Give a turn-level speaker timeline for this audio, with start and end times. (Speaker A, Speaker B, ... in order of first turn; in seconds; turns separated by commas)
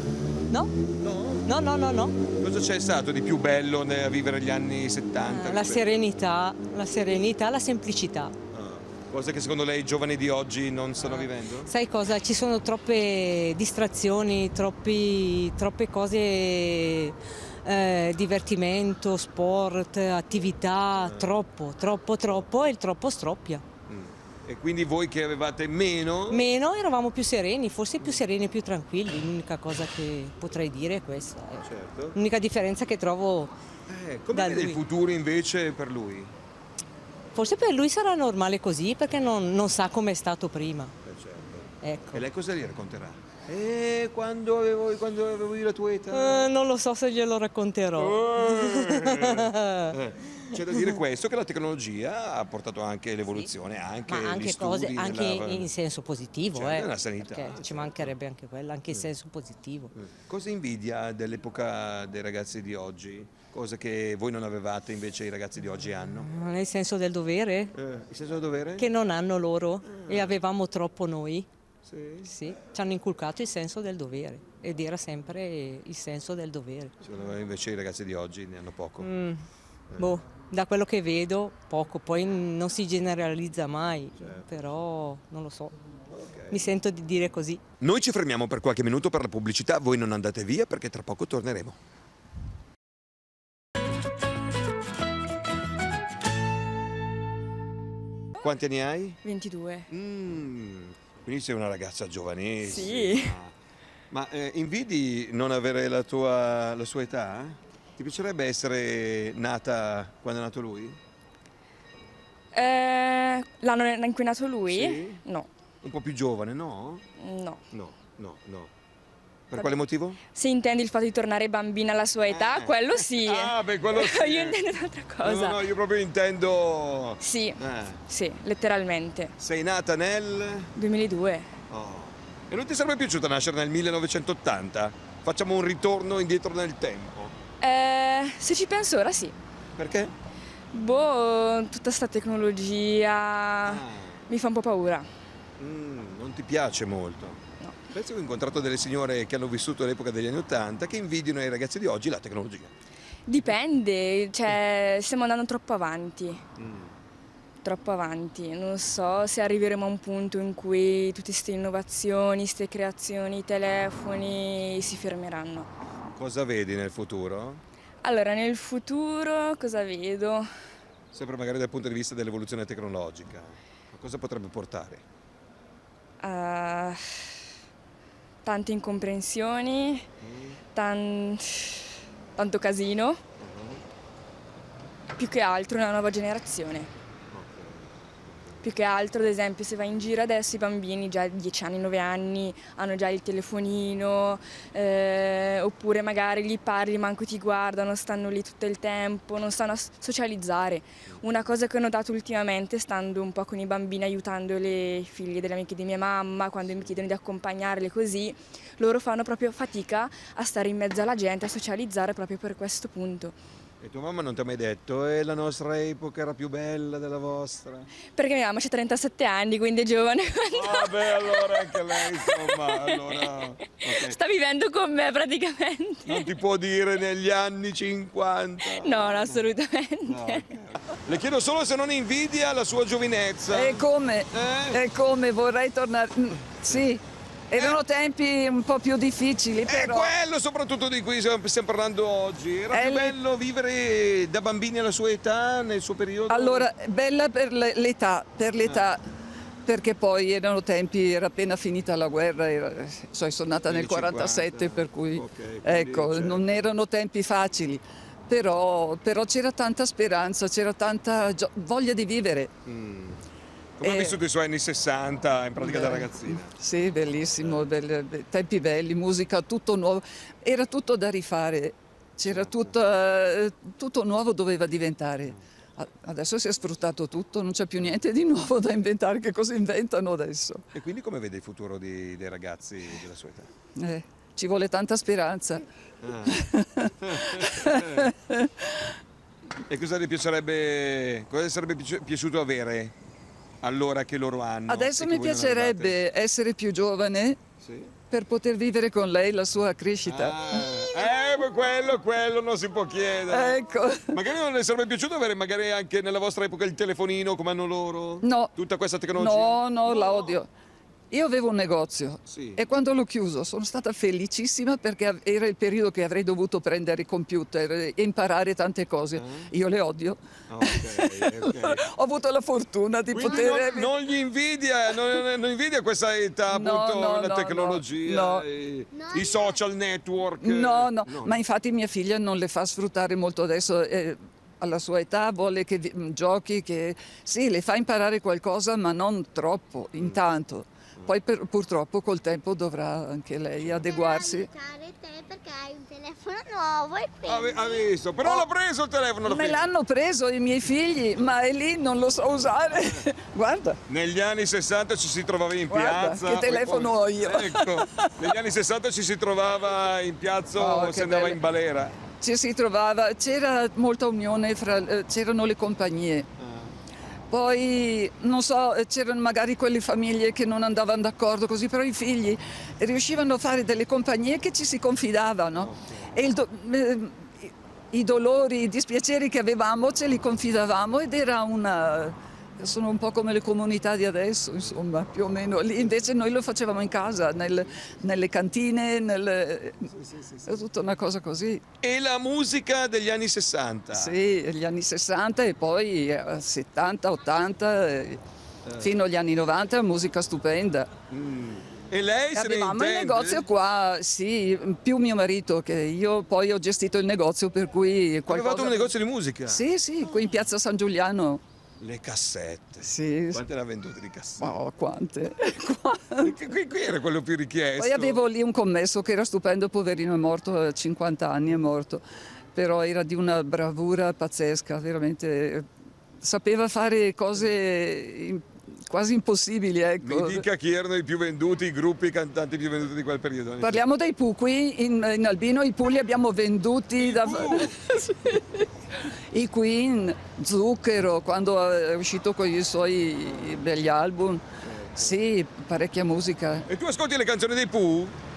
Speaker A: 1.0-1.5, Speaker B: 1.4-2.1, Speaker A: 2.4-6.0, Speaker B: 5.2-8.3, Speaker A: 8.5-11.7, Speaker B: 11.0-23.6, Speaker A: 21.0-21.4, Speaker A: 22.3-22.6, Speaker A: 23.9-26.5, Speaker B: 26.3-33.5, Speaker A: 28.0-28.3, Speaker A: 31.6-32.2, Speaker A: 33.9-36.3, Speaker B: 34.3-34.8, Speaker B: 37.4-40.9, Speaker A: 41.0-46.5, Speaker B: 41.8-42.2, Speaker B: 46.1-49.9, Speaker A: 48.0-55.7, Speaker B: 54.1-59.9, Speaker A: 56.5-58.2, Speaker A: 60.0-66.3, Speaker B: 66.2-67.7, Speaker A: 67.8-68.9, Speaker B: 68.8-71.5, Speaker A: 69.8-70.4, Speaker A: 71.8-72.3, Speaker B: 72.2-76.9, Speaker A: 77.0-79.1, Speaker B: 79.0-79.4, Speaker B: 80.0-85.8, Speaker A: 84.2-84.5, Speaker A: 86.1-86.7, Speaker B: 86.5-87.6, Speaker A: 87.8-91.8, Speaker A: 98.4-99.2, Speaker C: 99.2-99.9, Speaker A: 99.9-103.5, Speaker C: 102.6-103.4, Speaker A: 104.1-111.0, Speaker C: 112.5-115.5, Speaker A: 114.7-115.2, Speaker A: 115.8-117.0, Speaker C: 117.2-117.6, Speaker A: 117.7-118.7, Speaker A: 119.5-120.2, Speaker C: 120.3-125.6, Speaker A: 122.3-124.6, Speaker A: 125.2-128.0, Speaker C: 127.2-129.3, Speaker A: 129.4-130.7, Speaker C: 130.8-131.5, Speaker A: 131.7-137.3, Speaker C: 137.6-139.3, Speaker A: 139.8-140.1, Speaker C: 140.7-145.1, Speaker A: 143.7-144.2, Speaker A: 145.6-147.4, Speaker A: 147.9-152.7, Speaker C: 153.3-156.4, Speaker A: 156.6-156.9, Speaker C: 157.6-165.7, Speaker A: 166.2-167.6, Speaker C: 168.0-170.5, Speaker A: 171.1-175.0, Speaker C: 176.2-177.3, Speaker C: 178.4-180.1, Speaker A: 180.2-180.6, Speaker C: 180.7-183.2, Speaker A: 183.4-183.8, Speaker C: 185.2-186.9, Speaker A: 187.3-187.9, Speaker C: 188.6-213.4, Speaker A: 213.8-217.9, Speaker C: 218.2-226.3, Speaker A: 220.5-224.2, Speaker A: 226.1-229.4, Speaker C: 228.7-230.5, Speaker A: 230.1-234.8, Speaker D: 233.5-240.1, Speaker A: 236.4-236.9, Speaker A: 237.5-237.8, Speaker A: 239.7-246.7, Speaker D: 242.7-243.2, Speaker D: 246.3-249.0, Speaker D: 249.7-262.5, Speaker A: 253.7-256.6, Speaker A: 262.6-263.2, Speaker A: 263.8-266.6, Speaker D: 263.8-264.2, Speaker D: 265.6-280.6, Speaker A: 267.3-267.7, Speaker A: 272.3-272.8, Speaker A: 280.7-283.5, Speaker D: 283.8-285.6, Speaker A: 286.0-286.4, Speaker D: 286.3-288.9, Speaker A: 287.0-288.1, Speaker A: 289.7-292.9, Speaker A: 293.6-296.0, Speaker D: 294.7-297.4, Speaker A: 297.6-297.9, Speaker D: 298.1-300.7, Speaker A: 300.1-303.6, Speaker D: 303.3-304.2, Speaker A: 304.1-309.6, Speaker D: 308.2-308.5, Speaker D: 309.1-310.5, Speaker D: 311.1-324.0, Speaker A: 312.3-312.6, Speaker A: 319.2-319.5, Speaker A: 320.5-321.8, Speaker A: 323.1-331.4, Speaker E: 323.2-323.6, Speaker D: 326.5-328.5, Speaker E: 328.9-329.6, Speaker D: 330.4-344.5, Speaker A: 339.9-340.2, Speaker E: 343.8-347.9, Speaker A: 347.3-349.7, Speaker D: 349.2-353.8, Speaker A: 353.9-362.0, Speaker D: 355.7-358.1, Speaker D: 360.6-361.4, Speaker D: 362.2-366.3, Speaker A: 366.4-366.8, Speaker D: 367.3-389.9, Speaker A: 375.6-376.0, Speaker A: 385.8-386.1, Speaker A: 387.7-387.9, Speaker A: 389.9-390.7, Speaker D: 390.5-391.6, Speaker A: 391.8-394.2, Speaker D: 393.9-398.2, Speaker A: 398.7-399.0, Speaker D: 398.8-400.9, Speaker A: 401.1-403.5, Speaker D: 402.4-408.9, Speaker A: 408.3-409.6, Speaker D: 409.5-411.4, Speaker A: 411.8-414.5, Speaker D: 412.8-413.4, Speaker D: 414.4-416.3, Speaker A: 416.2-418.2, Speaker D: 417.8-422.0, Speaker D: 422.6-425.7, Speaker D: 426.2-430.4, Speaker A: 430.0-433.8, Speaker D: 433.6-438.6, Speaker A: 437.0-437.8, Speaker D: 439.3-444.4, Speaker A: 444.6-445.1, Speaker D: 444.9-446.7, Speaker A: 446.7-448.2